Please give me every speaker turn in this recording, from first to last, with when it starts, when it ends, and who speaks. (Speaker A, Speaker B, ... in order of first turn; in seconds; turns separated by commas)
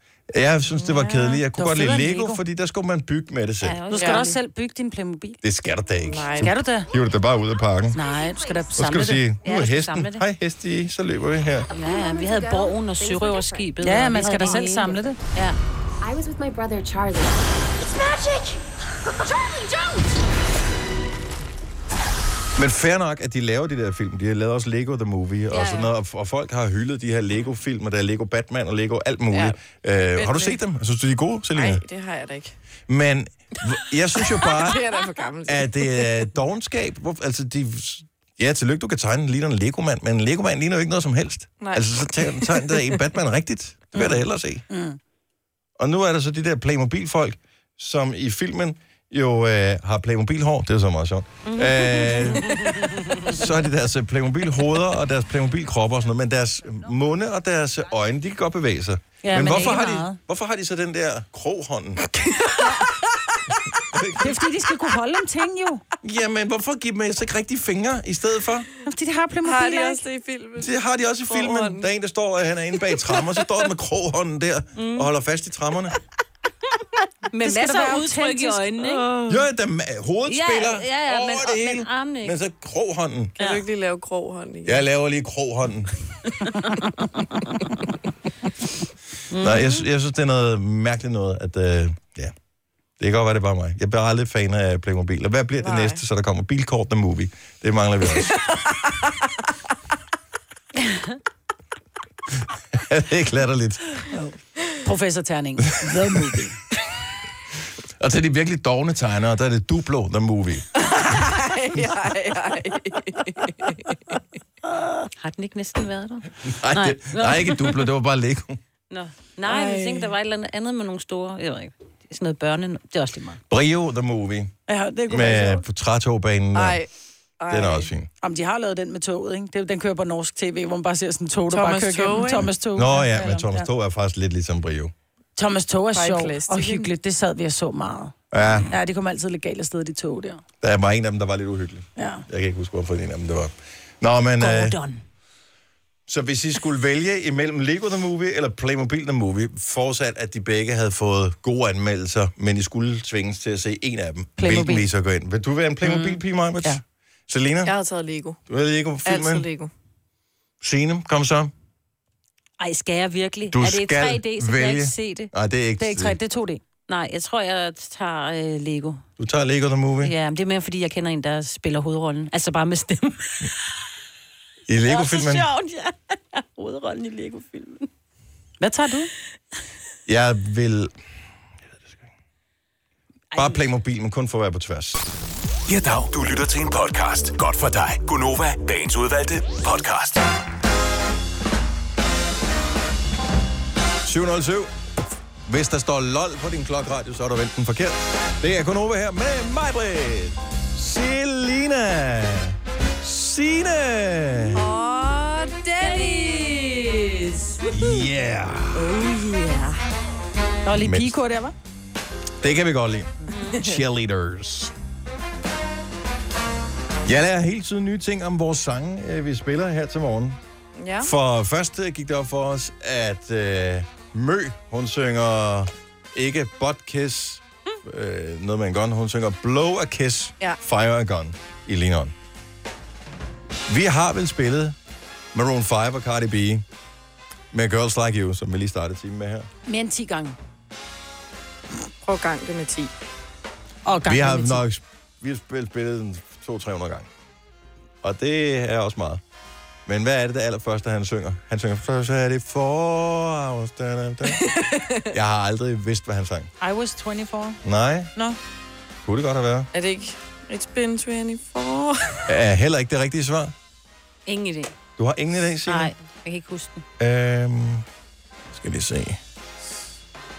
Speaker A: 0.3-3.8, Speaker B: 0.7-1.4, Speaker C: 1.6-2.4, Speaker D: 3.6-4.4, Speaker C: 3.9-5.4, Speaker B: 3.9-4.3, Speaker A: 5.4-8.0, Speaker B: 6.0-6.5, Speaker C: 6.4-6.9, Speaker C: 7.9-9.2, Speaker E: 8.2-8.6, Speaker A: 8.8-11.7, Speaker D: 9.4-10.2, Speaker E: 11.7-13.8, Speaker D: 11.7-15.6, Speaker C: 13.8-15.2, Speaker E: 16.0-18.6, Speaker E: 19.4-20.0, Speaker A: 22.6-31.8, Speaker D: 25.5-25.9, Speaker B: 29.3-29.6, Speaker B: 30.2-30.6, Speaker B: 31.6-32.6, Speaker A: 32.9-34.8, Speaker B: 34.2-36.1, Speaker A: 35.5-44.6, Speaker B: 41.6-43.0, Speaker C: 43.9-45.0, Speaker A: 45.8-62.0, Speaker D: 51.5-53.0, Speaker C: 59.2-60.2, Speaker D: 59.4-59.8, Speaker A: 63.8-64.4, Speaker C: 64.2-65.8, Speaker A: 66.0-68.7, Speaker C: 68.8-70.0, Speaker B: 69.4-70.7, Speaker A: 70.6-76.0, Speaker B: 71.3-71.9, Speaker B: 73.1-73.4, Speaker D: 74.8-75.1, Speaker D: 77.3-79.2, Speaker C: 77.4-79.0, Speaker A: 79.3-83.4, Speaker D: 80.3-82.4, Speaker B: 83.4-84.8, Speaker A: 84.7-85.9, Speaker D: 89.3-89.8, Speaker A: 89.3-92.3, Speaker A: 93.0-98.4, Speaker B: 95.6-96.0, Speaker A: 102.7-103.8, Speaker C: 104.1-106.6, Speaker A: 108.0-110.7, Speaker B: 110.8-114.0, Speaker D: 115.2-117.9, Speaker A: 116.5-118.6, Speaker D: 118.9-123.4, Speaker B: 119.5-120.1, Speaker A: 123.5-124.5, Speaker C: 124.7-125.6, Speaker A: 125.1-126.8, Speaker B: 126.5-127.9, Speaker A: 127.5-128.1, Speaker C: 128.2-133.7, Speaker B: 131.5-132.5, Speaker A: 132.8-134.9, Speaker C: 135.4-138.2, Speaker B: 135.9-136.9, Speaker A: 138.3-138.7, Speaker C: 138.7-140.4, Speaker A: 140.6-144.8, Speaker C: 142.0-142.2, Speaker D: 144.4-145.0, Speaker A: 146.1-157.7, Speaker C: 154.4-154.9, Speaker C: 155.8-156.8, Speaker B: 157.6-158.4, Speaker A: 158.5-159.5, Speaker B: 159.1-159.7, Speaker A: 160.6-161.5, Speaker D: 162.6-165.3, Speaker A: 163.5-166.2, Speaker C: 165.8-166.6, Speaker D: 166.9-169.1, Speaker A: 169.2-170.2, Speaker D: 170.0-173.5, Speaker A: 174.7-175.5, Speaker D: 174.9-177.9, Speaker C: 178.6-179.1, Speaker A: 180.1-180.9, Speaker A: 183.3-185.1, Speaker F: 185.7-190.3, Speaker A: 194.0-194.7, Speaker A: 195.5-204.7, Speaker B: 204.5-206.6, Speaker D: 205.8-207.9, Speaker A: 207.7-208.9, Speaker B: 208.7-209.8, Speaker C: 210.7-211.5, Speaker A: 210.8-211.2, Speaker A: 212.4-214.7, Speaker D: 213.2-213.6, Speaker B: 213.5-213.8, Speaker A: 217.1-220.4, Speaker B: 220.8-221.1, Speaker A: 221.0-232.1, Speaker A: 233.7-234.8, Speaker A: 235.3-236.7, Speaker A: 237.5-239.5, Speaker C: 239.7-240.4, Speaker B: 242.0-242.9, Speaker C: 243.8-244.6, Speaker A: 244.1-247.1, Speaker A: 248.0-249.2, Speaker A: 249.9-254.5, Speaker B: 254.3-255.0, Speaker A: 255.1-256.5, Speaker C: 256.6-257.6, Speaker A: 257.6-258.1, Speaker A: 259.1-259.7, Speaker B: 259.7-262.3, Speaker A: 262.3-263.6, Speaker D: 264.3-264.7, Speaker A: 265.0-265.9, Speaker D: 265.7-266.8, Speaker A: 267.0-267.9, Speaker A: 268.5-269.2